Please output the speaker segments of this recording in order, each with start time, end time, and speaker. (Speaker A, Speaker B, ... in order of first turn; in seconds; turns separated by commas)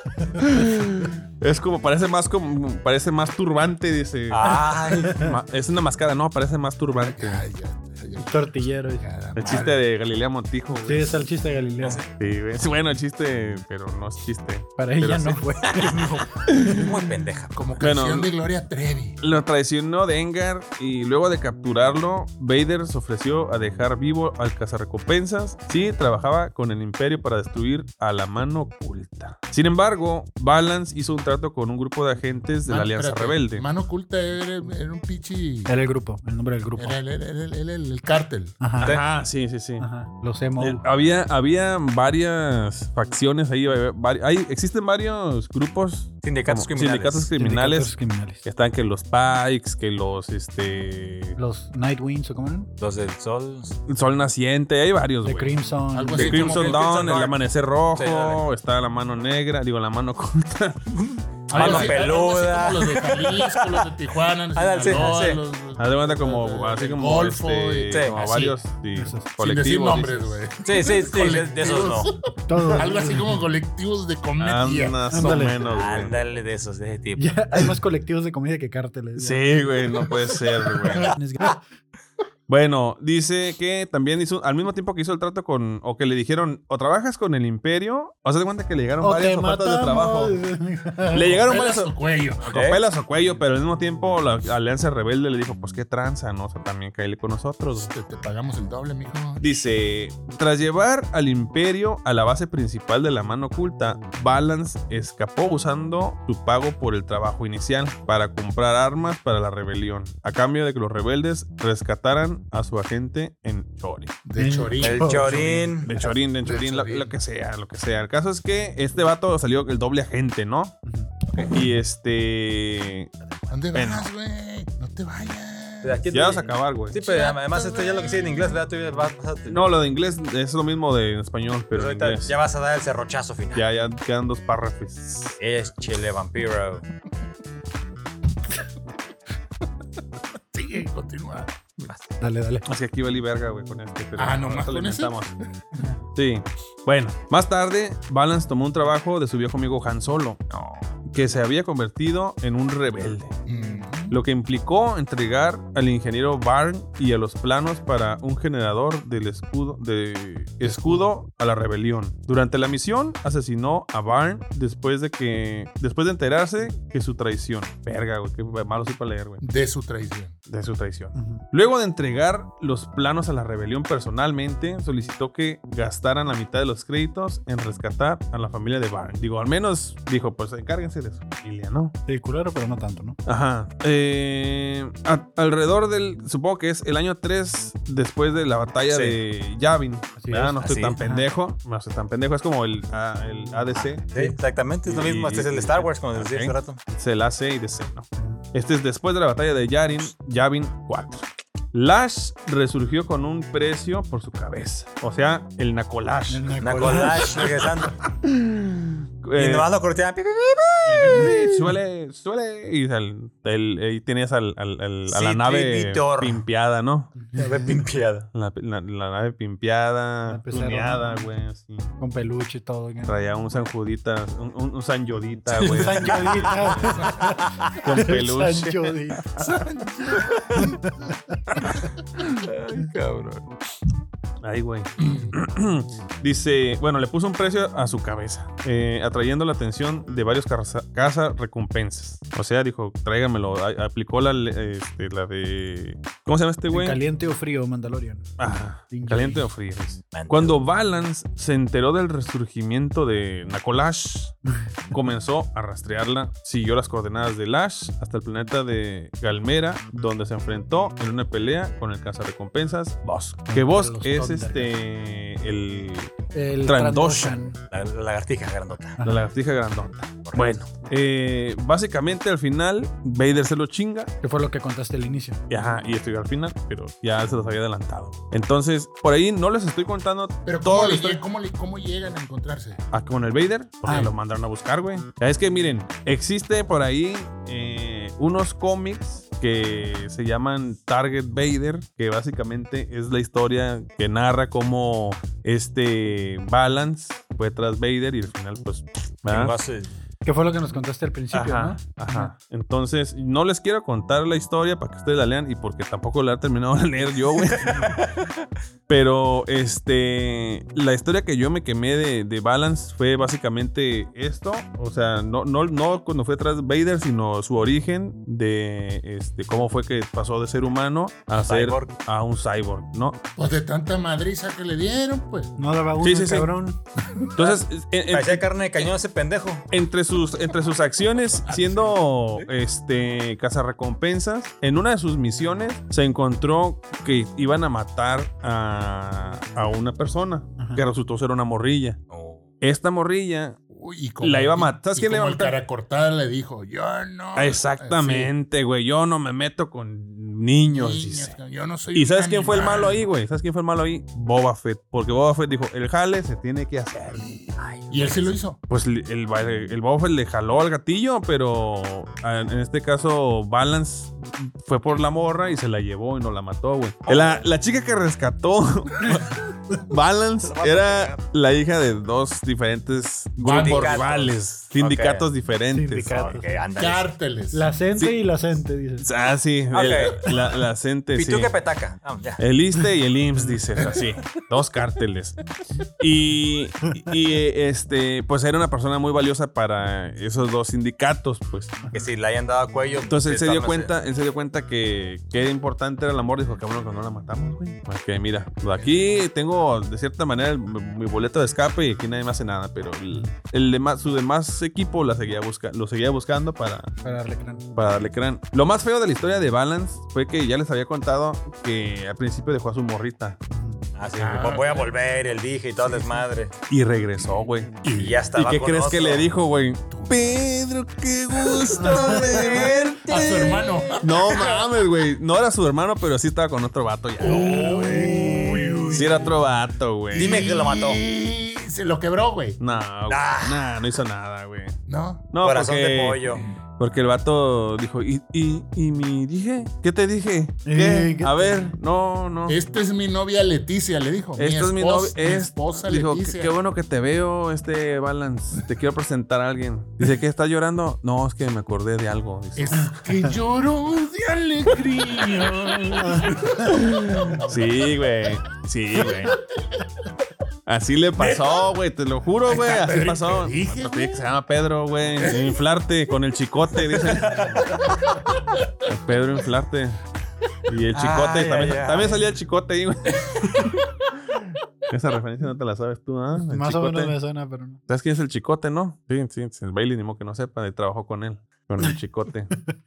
Speaker A: 0.4-7.5, Speaker B: 4.3-5.3, Speaker C: 7.1-9.8, Speaker D: 8.2-9.1, Speaker A: 9.4-11.2, Speaker D: 10.7-12.0, Speaker B: 11.8-12.1, Speaker A: 12.2-17.0, Speaker D: 14.8-16.2, Speaker B: 15.8-17.6, Speaker C: 17.6-19.2, Speaker A: 17.8-18.3, Speaker A: 19.2-33.6, Speaker C: 32.7-35.7, Speaker D: 35.7-37.0, Speaker C: 36.8-38.6, Speaker D: 38.6-38.9, Speaker B: 38.8-39.0, Speaker A: 38.8-39.9, Speaker D: 39.8-40.8, Speaker A: 40.6-51.4, Speaker B: 46.2-47.3, Speaker D: 47.3-48.4, Speaker D: 51.4-52.7, Speaker B: 52.8-53.8, Speaker A: 53.9-55.6, Speaker D: 55.2-56.4, Speaker C: 55.9-56.9, Speaker A: 56.1-60.8, Speaker B: 56.3-57.4, Speaker B: 57.9-58.4, Speaker B: 60.9-63.9, Speaker C: 61.5-68.0, Speaker A: 61.5-62.0, Speaker B: 64.5-65.4, Speaker A: 65.8-70.4, Speaker B: 67.9-68.6, Speaker D: 69.0-69.3, Speaker C: 69.4-75.1, Speaker B: 70.6-72.1, Speaker D: 72.5-73.4, Speaker A: 74.4-76.2, Speaker D: 75.1-75.7, Speaker B: 75.7-77.3, Speaker D: 77.2-79.6, Speaker A: 79.2-81.2, Speaker D: 80.8-81.6, Speaker A: 82.5-90.4, Speaker D: 89.0-91.4, Speaker A: 91.1-91.9, Speaker C: 91.3-92.4, Speaker B: 92.5-92.8, Speaker A: 92.5-97.9, Speaker C: 97.8-99.5, Speaker A: 99.4-114.2, Speaker C: 114.2-117.1, Speaker D: 114.4-115.7, Speaker B: 114.8-115.9, Speaker A: 115.8-120.8, Speaker A: 121.4-123.1, Speaker C: 123.5-126.0, Speaker A: 123.7-124.1, Speaker B: 125.8-129.7, Speaker A: 126.1-127.1, Speaker C: 127.0-128.6, Speaker A: 129.5-132.4, Speaker B: 131.7-133.7, Speaker A: 133.5-135.4, Speaker B: 135.4-136.9, Speaker C: 140.4-141.9, Speaker D: 142.2-142.7, Speaker A: 142.7-145.3, Speaker C: 144.2-145.2, Speaker A: 146.2-150.4, Speaker B: 150.5-150.9, Speaker A: 151.1-153.3, Speaker C: 153.5-154.2, Speaker A: 154.1-169.4, Speaker C: 169.4-170.3, Speaker A: 170.5-181.9, Speaker D: 171.2-171.4, Speaker D: 182.1-183.2, Speaker A: 183.3-194.3, Speaker B: 188.9-189.2, Speaker D: 190.2-191.3, Speaker B: 190.6-191.0, Speaker B: 193.8-196.8, Speaker A: 194.8-207.7, Speaker D: 206.3-207.5, Speaker B: 206.6-208.0, Speaker A: 208.2-209.7, Speaker B: 209.4-211.3, Speaker A: 210.9-217.1, Speaker D: 210.9-211.3, Speaker B: 215.1-216.4, Speaker D: 217.2-217.5, Speaker B: 217.3-218.3, Speaker A: 218.3-221.9, Speaker D: 220.3-221.3, Speaker D: 222.0-223.2, Speaker A: 223.1-227.1, Speaker B: 225.5-227.8, Speaker D: 225.6-227.3, Speaker C: 227.0-227.3, Speaker A: 227.7-229.4, Speaker D: 227.8-229.2, Speaker C: 229.4-230.8, Speaker D: 230.6-231.6, Speaker B: 232.2-233.5, Speaker A: 234.4-247.0, Speaker C: 235.0-235.3, Speaker D: 246.7-248.3, Speaker A: 248.4-254.4, Speaker D: 248.9-249.5, Speaker B: 250.1-250.6, Speaker A: 254.9-267.4, Speaker D: 263.5-264.7, Speaker D: 266.3-267.6, Speaker B: 267.7-269.0, Speaker A: 269.0-274.1, Speaker B: 270.2-270.6, Speaker D: 274.2-275.4, Speaker A: 275.5-281.2, Speaker C: 280.5-282.8, Speaker A: 282.9-299.6, Speaker D: 283.9-284.1, Speaker B: 299.3-299.9, Speaker D: 300.2-302.3, Speaker A: 301.3-308.1, Speaker A: 308.9-323.2, Speaker B: 321.4-321.9, Speaker C: 323.4-325.5, Speaker D: 325.6-326.8, Speaker A: 326.0-326.5, Speaker A: 327.3-328.9, Speaker B: 327.4-329.7, Speaker A: 329.7-342.0, Speaker C: 331.5-331.9, Speaker D: 340.6-340.9, Speaker B: 342.1-342.5, Speaker A: 342.6-343.6, Speaker C: 343.7-348.3, Speaker A: 344.2-345.6, Speaker A: 347.4-351.4, Speaker C: 350.7-353.0, Speaker A: 351.9-357.3, Speaker B: 357.6-358.2, Speaker C: 357.9-358.6, Speaker A: 358.7-376.3, Speaker B: 367.1-367.4, Speaker B: 370.4-371.2, Speaker C: 373.4-374.2, Speaker B: 373.4-375.3, Speaker D: 375.7-376.5, Speaker B: 376.1-377.1, Speaker C: 376.8-377.7, Speaker D: 377.5-379.1, Speaker A: 379.0-381.5, Speaker B: 379.7-380.3, Speaker B: 381.1-382.4, Speaker A: 382.4-385.4, Speaker A: 386.0-391.8, Speaker B: 391.9-393.9, Speaker A: 393.1-406.9, Speaker D: 407.0-407.7, Speaker A: 407.8-413.4, Speaker D: 413.5-413.8, Speaker B: 413.9-416.5, Speaker C: 414.2-414.9, Speaker A: 416.7-417.8, Speaker C: 417.8-418.3, Speaker B: 417.9-419.3, Speaker A: 418.4-427.8, Speaker C: 419.9-420.4, Speaker C: 421.6-424.6, Speaker D: 421.8-422.3, Speaker B: 421.9-424.2, Speaker C: 427.2-429.3, Speaker B: 427.2-428.4, Speaker D: 427.9-429.0, Speaker A: 428.9-430.5, Speaker C: 430.1-432.6, Speaker B: 430.1-431.0, Speaker A: 432.6-434.8, Speaker B: 433.1-433.9, Speaker C: 434.9-435.3, Speaker A: 435.3-442.6, Speaker B: 435.4-436.4, Speaker D: 440.6-441.8, Speaker C: 442.5-446.6, Speaker A: 444.4-452.9, Speaker C: 452.6-456.8, Speaker D: 456.1-456.4, Speaker A: 456.6-459.4, Speaker A: 460.7-467.8, Speaker C: 462.5-464.2, Speaker C: 465.2-465.5, Speaker B: 466.9-468.0, Speaker A: 468.9-470.0, Speaker A: 470.7-473.7, Speaker B: 470.9-472.2, Speaker A: 474.9-477.1, Speaker D: 476.4-477.8, Speaker A: 477.9-482.6